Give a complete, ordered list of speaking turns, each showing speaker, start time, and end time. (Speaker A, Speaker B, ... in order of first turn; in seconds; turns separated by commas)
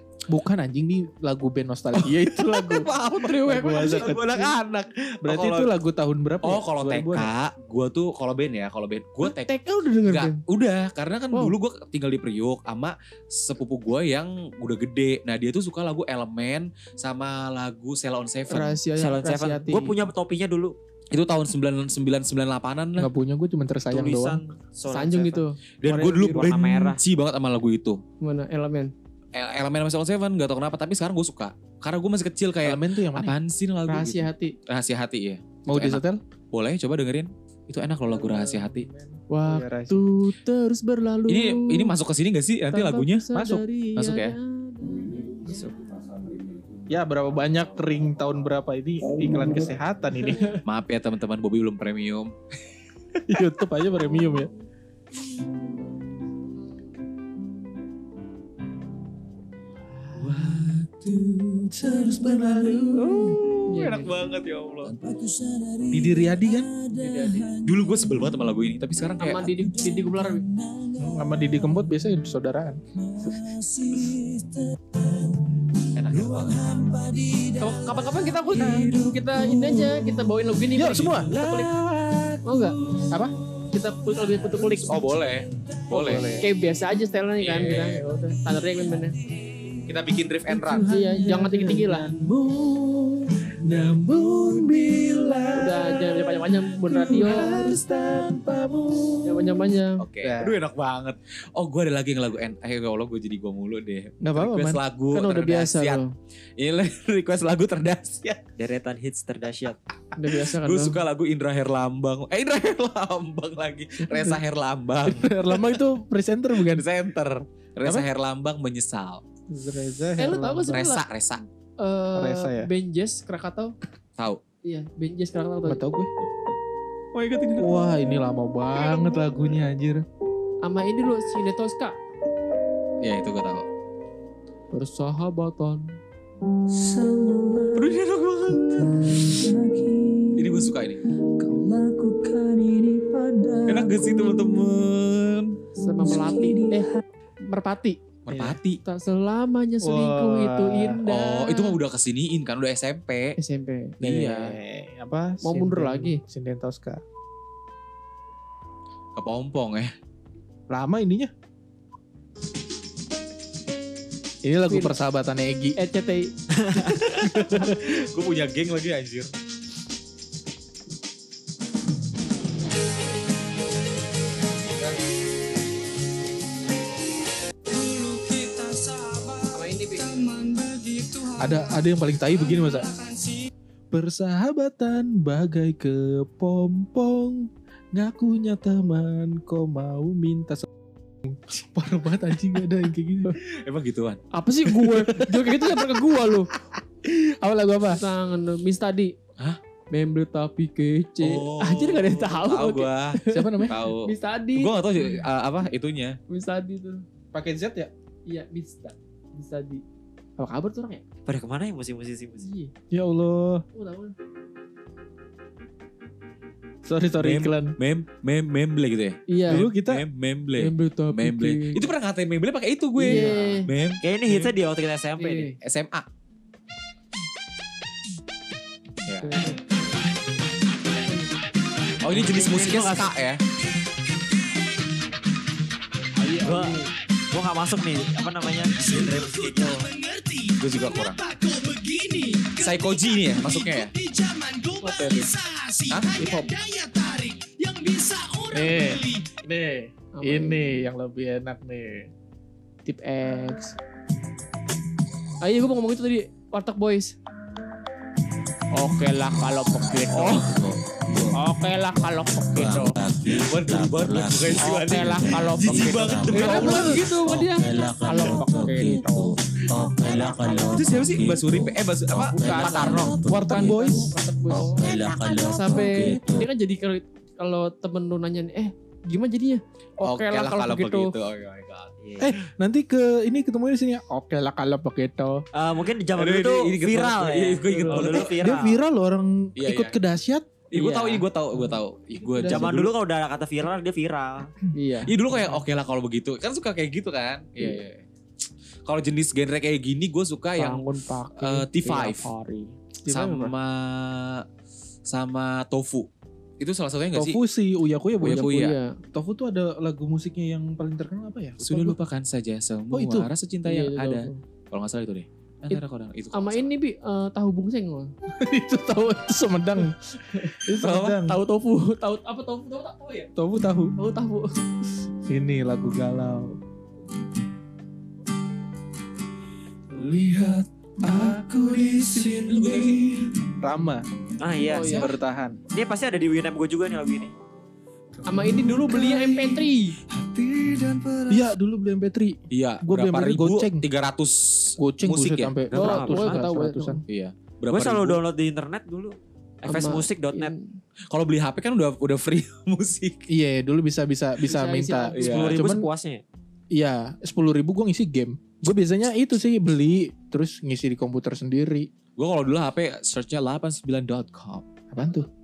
Speaker A: 0.3-4.4, Speaker B: 1.9-5.7, Speaker C: 3.2-4.4, Speaker A: 5.2-7.3, Speaker B: 6.4-9.5, Speaker C: 9.2-10.4, Speaker B: 10.1-18.8, Speaker C: 18.5-19.9, Speaker D: 18.9-20.8, Speaker B: 21.1-23.1, Speaker A: 23.0-24.4, Speaker D: 23.9-27.0, Speaker C: 24.9-26.5, Speaker B: 25.8-28.0, Speaker C: 28.2-28.9, Speaker B: 29.3-38.9, Speaker A: 32.6-33.3, Speaker C: 33.9-34.5, Speaker A: 35.7-36.2, Speaker A: 38.0-40.0, Speaker C: 39.3-41.9, Speaker B: 41.3-43.2, Speaker C: 42.7-45.7, Speaker A: 43.3-43.6, Speaker B: 44.0-44.4, Speaker A: 46.9-50.5, Speaker C: 50.2-50.6, Speaker B: 50.6-52.3, Speaker A: 53.3-54.5, Speaker C: 59.9-60.7, Speaker B: 60.2-65.0, Speaker A: 61.7-63.3, Speaker C: 63.7-64.1, Speaker E: 65.1-65.8, Speaker A: 65.9-66.7, Speaker C: 66.9-67.5, Speaker B: 67.5-70.1, Speaker C: 69.2-70.4, Speaker A: 71.0-72.8, Speaker B: 73.2-74.4, Speaker B: 75.9-77.1, Speaker C: 77.6-81.7, Speaker A: 78.6-78.9, Speaker A: 80.7-81.3, Speaker B: 81.0-83.3, Speaker C: 82.4-82.8, Speaker A: 83.1-83.3, Speaker C: 83.7-85.0, Speaker B: 84.5-86.3, Speaker A: 85.9-86.5, Speaker C: 86.4-89.2, Speaker B: 87.4-88.0, Speaker B: 89.8-90.9, Speaker C: 90.7-92.1, Speaker B: 91.8-95.9, Speaker A: 93.7-95.0, Speaker C: 95.5-97.6, Speaker B: 96.9-99.1, Speaker C: 99.2-100.0, Speaker B: 100.0-106.0, Speaker A: 100.2-100.5, Speaker A: 104.2-104.8, Speaker C: 105.1-106.1, Speaker B: 106.6-108.4, Speaker D: 108.6-109.8, Speaker C: 110.2-111.0, Speaker B: 110.2-115.8, Speaker C: 114.1-114.4, Speaker A: 115.0-116.8, Speaker B: 116.6-119.2, Speaker A: 119.5-120.8, Speaker C: 120.2-121.0, Speaker B: 120.7-121.4, Speaker C: 121.8-123.7, Speaker A: 122.1-122.7, Speaker C: 124.6-125.8, Speaker A: 125.7-126.1, Speaker B: 127.1-127.8, Speaker A: 127.6-130.0, Speaker C: 130.6-132.0, Speaker B: 133.0-133.7, Speaker C: 134.7-135.9, Speaker E: 136.7-137.9, Speaker B: 137.7-139.3, Speaker E: 139.0-140.4, Speaker B: 140.3-141.0, Speaker E: 141.4-144.3, Speaker B: 143.7-145.6, Speaker C: 145.8-146.9, Speaker E: 146.0-146.9, Speaker C: 147.4-148.0, Speaker B: 148.3-148.8, Speaker A: 148.3-148.6, Speaker C: 148.8-151.8, Speaker A: 149.8-151.0, Speaker B: 151.1-153.3, Speaker C: 153.4-154.4, Speaker A: 154.0-157.0, Speaker C: 155.4-156.2, Speaker B: 159.2-159.9, Speaker A: 160.7-161.3, Speaker A: 164.4-165.8, Speaker C: 164.7-164.9, Speaker C: 165.8-166.3, Speaker D: 166.6-167.0, Speaker B: 166.8-169.3, Speaker A: 167.3-167.8, Speaker C: 179.5-180.1, Speaker A: 181.4-182.9, Speaker A: 183.9-190.7, Speaker A: 191.2-193.4, Speaker B: 193.5-194.2, Speaker C: 194.3-196.5, Speaker A: 195.1-195.7, Speaker A: 197.0-198.0, Speaker C: 197.9-199.1, Speaker C: 199.9-204.7, Speaker B: 201.2-206.2, Speaker A: 203.3-203.8, Speaker C: 206.3-207.0, Speaker A: 207.3-207.9, Speaker C: 208.3-209.8, Speaker C: 210.4-211.0, Speaker D: 211.2-212.5, Speaker C: 212.4-212.7, Speaker A: 212.9-213.6, Speaker C: 213.7-214.1, Speaker A: 216.8-217.7, Speaker B: 217.2-224.5, Speaker C: 219.3-219.7, Speaker A: 219.5-220.0, Speaker C: 220.6-221.9, Speaker C: 223.0-223.7, Speaker D: 223.1-225.5, Speaker C: 225.2-225.6, Speaker B: 225.6-226.1, Speaker B: 229.1-229.4, Speaker C: 229.2-229.6, Speaker B: 232.0-233.4, Speaker D: 232.1-233.1, Speaker D: 236.4-236.8, Speaker D: 237.3-239.8, Speaker C: 239.6-239.8, Speaker B: 240.6-241.2, Speaker B: 242.6-243.9, Speaker C: 244.8-245.3, Speaker B: 245.9-246.5, Speaker A: 248.5-252.1, Speaker C: 250.1-250.7, Speaker C: 252.8-253.8, Speaker C: 255.4-257.1, Speaker C: 258.7-260.6, Speaker B: 260.1-260.6, Speaker C: 261.3-263.0, Speaker B: 263.2-267.1, Speaker C: 264.6-269.4, Speaker A: 266.4-266.8, Speaker E: 267.7-269.2, Speaker E: 269.8-271.7, Speaker C: 270.3-270.6, Speaker B: 270.7-273.3, Speaker C: 272.1-274.9, Speaker E: 272.4-273.8, Speaker A: 273.2-274.1, Speaker E: 274.6-276.4, Speaker C: 275.4-281.1, Speaker B: 280.0-281.9, Speaker D: 282.0-282.3, Speaker A: 282.2-285.4, Speaker D: 285.5-288.8, Speaker B: 286.1-288.4, Speaker C: 287.9-288.2, Speaker A: 288.4-290.5, Speaker B: 289.6-290.0, Speaker B: 290.7-292.9, Speaker C: 290.7-291.2, Speaker A: 292.2-292.8, Speaker D: 292.4-294.5, Speaker C: 294.7-295.6, Speaker B: 295.1-298.0, Speaker B: 298.9-302.3, Speaker C: 300.6-303.5, Speaker B: 303.1-304.4, Speaker B: 305.1-306.1, Speaker B: 306.6-307.4, Speaker A: 307.1-312.0, Speaker B: 308.2-308.8, Speaker C: 308.2-309.0, Speaker B: 311.6-316.7, Speaker A: 312.9-313.3, Speaker C: 313.6-314.4, Speaker C: 316.3-318.1, Speaker A: 318.4-319.9, Speaker C: 320.3-320.6, Speaker A: 320.5-321.4, Speaker B: 320.8-321.2, Speaker C: 321.2-323.3, Speaker A: 323.4-323.9, Speaker C: 324.0-324.5, Speaker A: 325.2-326.6, Speaker B: 330.0-330.4, Speaker A: 331.0-331.9, Speaker B: 331.0-333.3, Speaker A: 333.6-334.0, Speaker D: 334.4-335.1, Speaker C: 334.6-335.1, Speaker A: 334.9-335.6, Speaker D: 335.7-337.3, Speaker C: 338.2-339.9, Speaker B: 340.2-341.2, Speaker A: 341.3-343.8, Speaker B: 342.5-345.9, Speaker A: 344.8-347.0, Speaker C: 345.7-347.0, Speaker D: 345.7-346.4, Speaker B: 347.1-348.2, Speaker D: 347.7-350.5, Speaker C: 349.7-350.8, Speaker B: 351.1-353.2, Speaker A: 353.3-355.9, Speaker C: 354.4-355.1, Speaker D: 355.1-356.2, Speaker B: 355.1-355.7, Speaker A: 356.7-361.9, Speaker B: 362.2-364.6, Speaker A: 364.9-365.3